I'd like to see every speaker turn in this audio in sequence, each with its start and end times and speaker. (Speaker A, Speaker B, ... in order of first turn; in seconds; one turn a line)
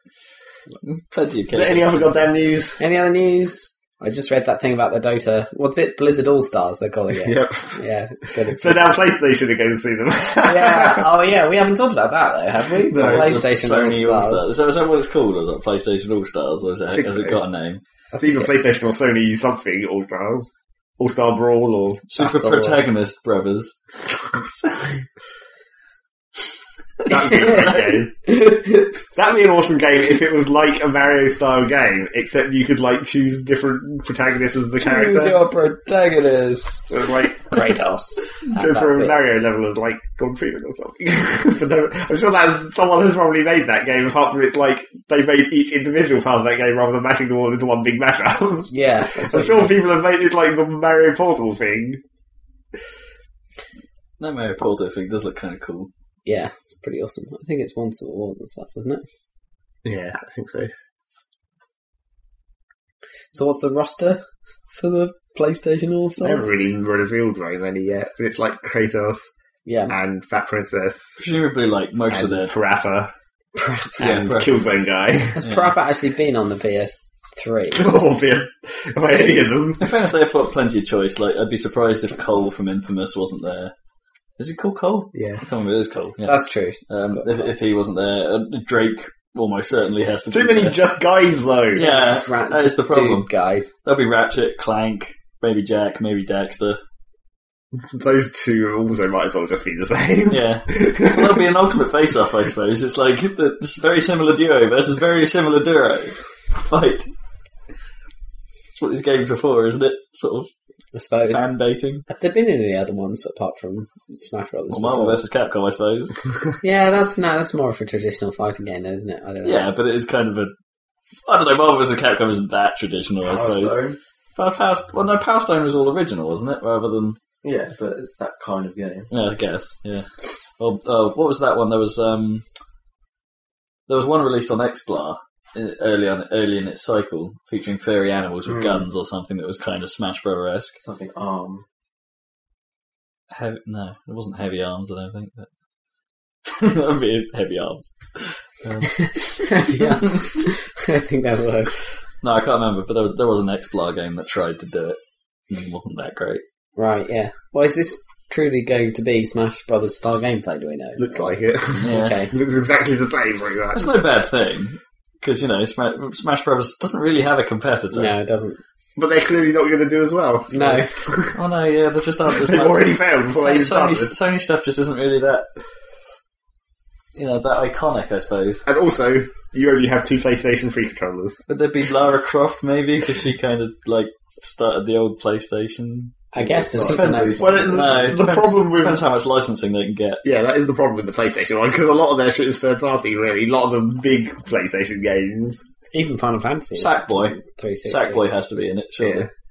Speaker A: 0.8-2.3
Speaker B: 1.5-2.8
Speaker C: 2.8-8.8
Speaker B: 7.2-7.8
Speaker B: 8.5-11.1
Speaker C: 10.4-14.5
Speaker B: 12.9-13.3
Speaker A: 12.9-17.8
Speaker B: 16.9-17.4
Speaker B: 18.1-22.1
Speaker A: 22.1-23.8
Speaker C: 22.2-22.8
Speaker B: 27.1-28.1
Speaker C: 27.3-28.9
Speaker B: 29.1-35.4
Speaker C: 34.8-39.2
Speaker B: 36.9-37.6
Speaker B: 38.5-48.7
Speaker C: 48.7-49.8
Speaker B: 49.2-52.0
Speaker A: 54.2-55.9
Speaker C: 56.3-59.0
Speaker B: 59.8-60.7
Speaker C: 63.3-66.5
Speaker B: 66.2-69.3
Speaker C: 69.7-69.9
Speaker B: 69.9-71.2
Speaker A: 71.2-72.5
Speaker B: 72.1-73.1
Speaker C: 73.5-74.1
Speaker B: 74.0-75.4
Speaker A: 74.0-74.5
Speaker C: 75.4-78.0
Speaker B: 77.8-79.8
Speaker A: 79.8-83.7
Speaker A: 84.4-90.8
Speaker B: 85.1-85.4
Speaker C: 86.2-87.4
Speaker B: 90.3-91.9
Speaker A: 91.7-93.3
Speaker C: 91.8-93.7
Speaker A: 93.8-96.8
Speaker B: 97.8-101.4
Speaker A: 100.3-107.1
Speaker A: 108.8-110.5
Speaker C: 110.9-111.4
Speaker A: 111.3-112.0
Speaker C: 112.1-115.2
Speaker A: 114.7-116.2
Speaker C: 116.6-119.7
Speaker A: 119.4-120.5
Speaker A: 121.3-123.8
Speaker D: 123.2-124.0
Speaker A: 124.4-127.2
Speaker D: 127.4-129.1
Speaker A: 129.1-130.1
Speaker A: 130.6-132.4
Speaker A: 133.9-140.8
Speaker D: 138.5-138.8
Speaker D: 140.8-141.6
Speaker A: 143.3-145.5
Speaker A: 146.5-149.9
Speaker C: 149.4-151.8
Speaker A: 152.2-155.0
Speaker A: 155.5-156.4
Speaker C: 156.8-162.3
Speaker B: 161.0-163.8
Speaker A: 161.8-162.2
Speaker A: 163.7-168.1
Speaker C: 167.9-168.6
Speaker B: 169.0-171.4
Speaker C: 170.5-170.9
Speaker A: 171.3-175.4
Speaker B: 172.3-174.1
Speaker A: 177.2-178.6
Speaker B: 178.7-181.4
Speaker A: 181.5-186.2
Speaker C: 186.3-187.8
Speaker D: 186.4-187.8
Speaker A: 186.9-190.2
Speaker B: 187.4-189.0
Speaker B: 190.2-195.6
Speaker C: 195.9-198.2
Speaker A: 196.8-199.3
Speaker B: 199.0-199.3